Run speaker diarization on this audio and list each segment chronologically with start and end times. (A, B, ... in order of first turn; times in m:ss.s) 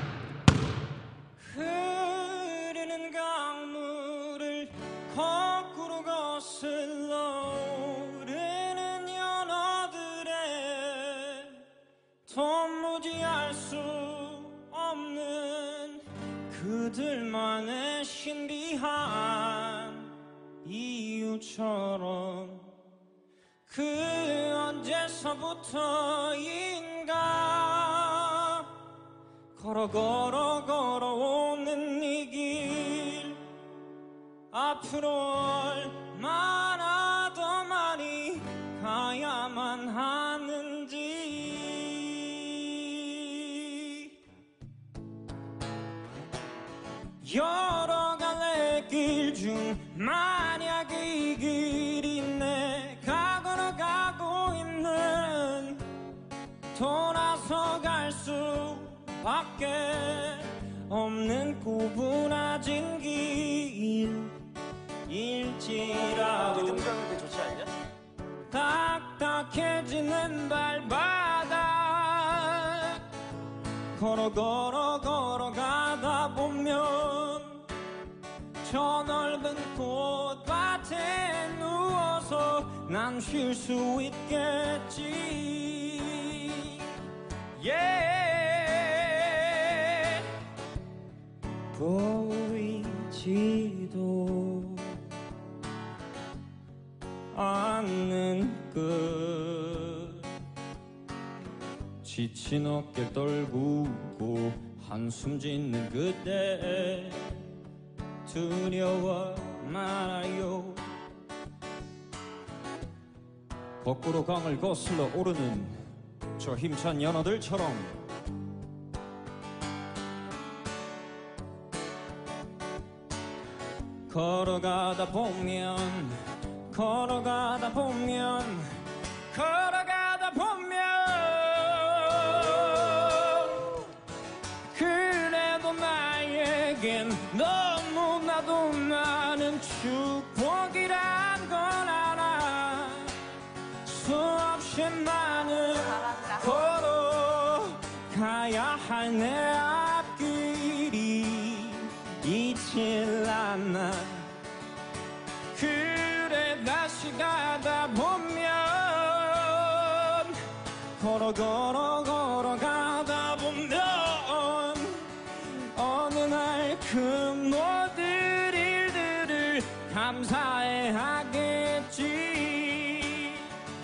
0:01.4-0:11.5 A
0:12.3-0:20.1 A
0:20.6-0:22.6 A
0:23.7-0:28.7 A
0:29.6-0:33.4 A
0:34.5-0:44.1 A
0:47.2-0:55.8 A
0:56.7-1:04.4 A
1:05.1-1:07.1 A
1:08.5-1:13.0 A
1:14.0-1:17.6 A
1:18.6-1:26.8 A
1:27.6-1:30.2 A
1:31.7-1:35.0 A
1:37.3-1:40.2 A
1:42.0-1:47.2 A
1:48.3-1:50.8 A
1:53.8-1:55.8 A
1:56.4-1:58.1 A
2:04.1-2:06.2 A
2:06.7-2:08.7 A
2:09.3-2:13.8 A
2:14.7-2:23.1 A
2:23.8-2:34.3 A
2:35.5-2:40.4 A
2:41.0-2:45.1 A
2:45.7-2:53.5 A